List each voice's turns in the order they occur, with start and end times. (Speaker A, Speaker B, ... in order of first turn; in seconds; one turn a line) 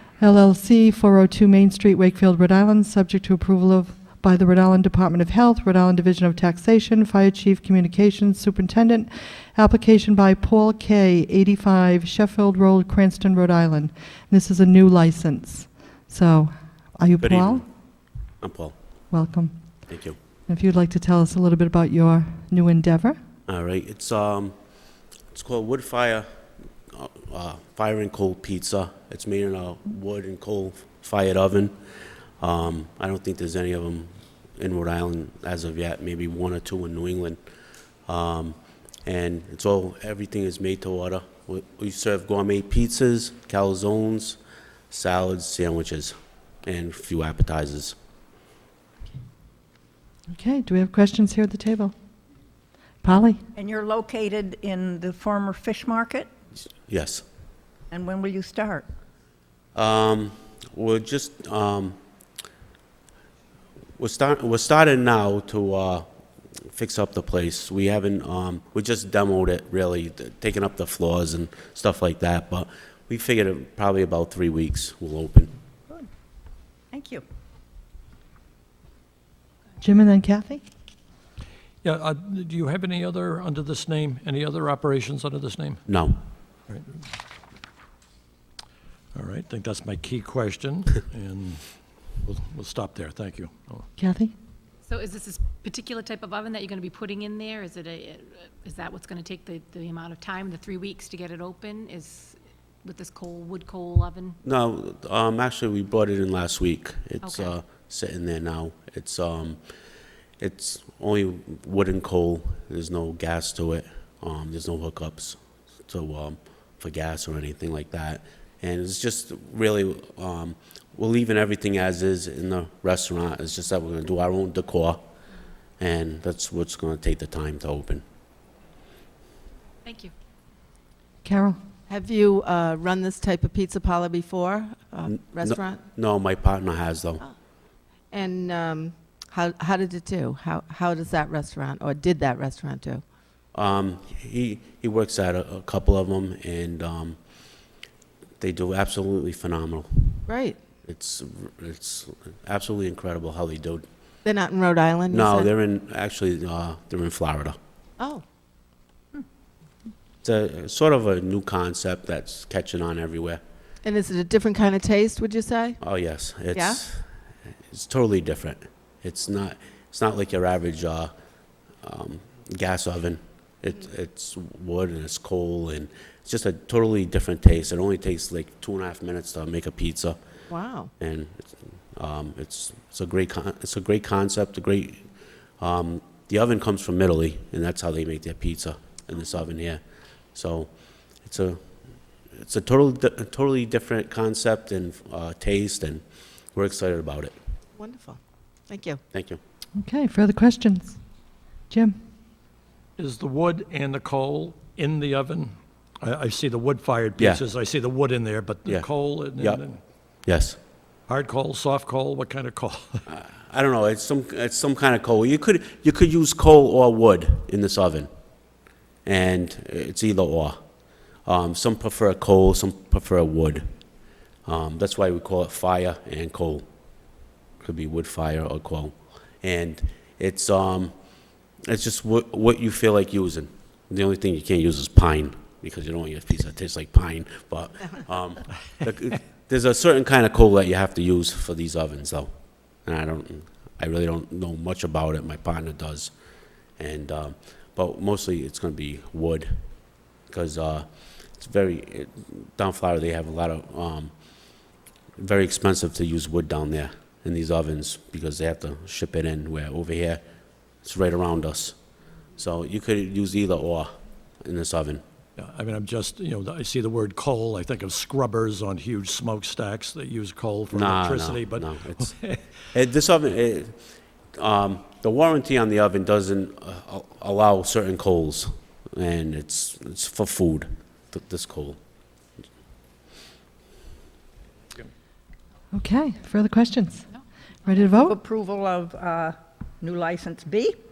Speaker A: 0.2-17.6
Speaker B: 17.2-17.6
Speaker B: 18.4-18.8
Speaker A: 19.1-19.6
Speaker B: 19.9-20.2
Speaker A: 20.5-23.2
Speaker B: 23.5-24.5
Speaker B: 25.3-26.3
Speaker B: 26.9-31.7
Speaker B: 32.4-37.4
Speaker B: 38.1-44.4
Speaker B: 44.9-48.0
Speaker A: 50.3-52.0
Speaker A: 53.0-53.4
Speaker C: 53.5-56.3
Speaker B: 56.9-57.2
Speaker C: 57.9-58.9
Speaker B: 59.8-62.0
Speaker B: 64.0-66.1
Speaker B: 66.7-75.5
Speaker C: 76.9-77.2
Speaker A: 79.8-80.7
Speaker D: 81.8-85.8
Speaker B: 85.9-86.2
Speaker D: 89.1-91.6
Speaker D: 92.2-93.9
Speaker A: 94.0-94.3
Speaker E: 94.9-104.4
Speaker B: 104.4-109.6
Speaker E: 107.2-107.5
Speaker B: 110.4-125.0
Speaker B: 125.8-128.0
Speaker E: 129.8-130.1
Speaker A: 131.2-131.6
Speaker F: 131.9-135.8
Speaker B: 135.1-137.2
Speaker F: 138.1-143.0
Speaker B: 143.5-147.2
Speaker B: 148.4-150.2
Speaker F: 150.3-150.6
Speaker B: 150.8-153.9
Speaker F: 154.2-155.5
Speaker B: 155.1-157.6
Speaker B: 160.2-163.4
Speaker F: 163.8-165.8
Speaker B: 165.8-167.1
Speaker F: 166.5-166.8
Speaker B: 167.7-171.1
Speaker B: 171.8-180.2
Speaker F: 180.5-180.9
Speaker B: 181.0-185.0
Speaker B: 185.6-189.8
Speaker B: 190.3-190.7
Speaker B: 191.2-191.6
Speaker B: 192.3-196.0
Speaker B: 196.6-197.3
Speaker F: 197.8-199.0
Speaker B: 199.1-199.4
Speaker A: 199.8-201.0
Speaker A: 201.7-202.0
Speaker D: 203.0-209.8
Speaker B: 207.2-207.4
Speaker B: 208.7-209.6
Speaker B: 210.3-210.6
Speaker D: 211.1-213.0
Speaker B: 213.1-218.1
Speaker B: 219.1-220.6
Speaker B: 221.3-223.7
Speaker B: 224.5-226.7
Speaker B: 227.6-230.9
Speaker B: 231.7-242.3
Speaker B: 242.8-246.1
Speaker B: 246.8-249.6
Speaker B: 250.3-254.1
Speaker B: 255.2-260.2
Speaker B: 260.8-261.8
Speaker B: 262.4-263.9
Speaker B: 264.4-265.0
Speaker D: 265.4-272.4
Speaker B: 270.7-272.1
Speaker B: 272.7-273.8
Speaker B: 274.4-281.8
Speaker A: 285.7-287.1
Speaker A: 287.6-288.2
Speaker C: 288.0-290.8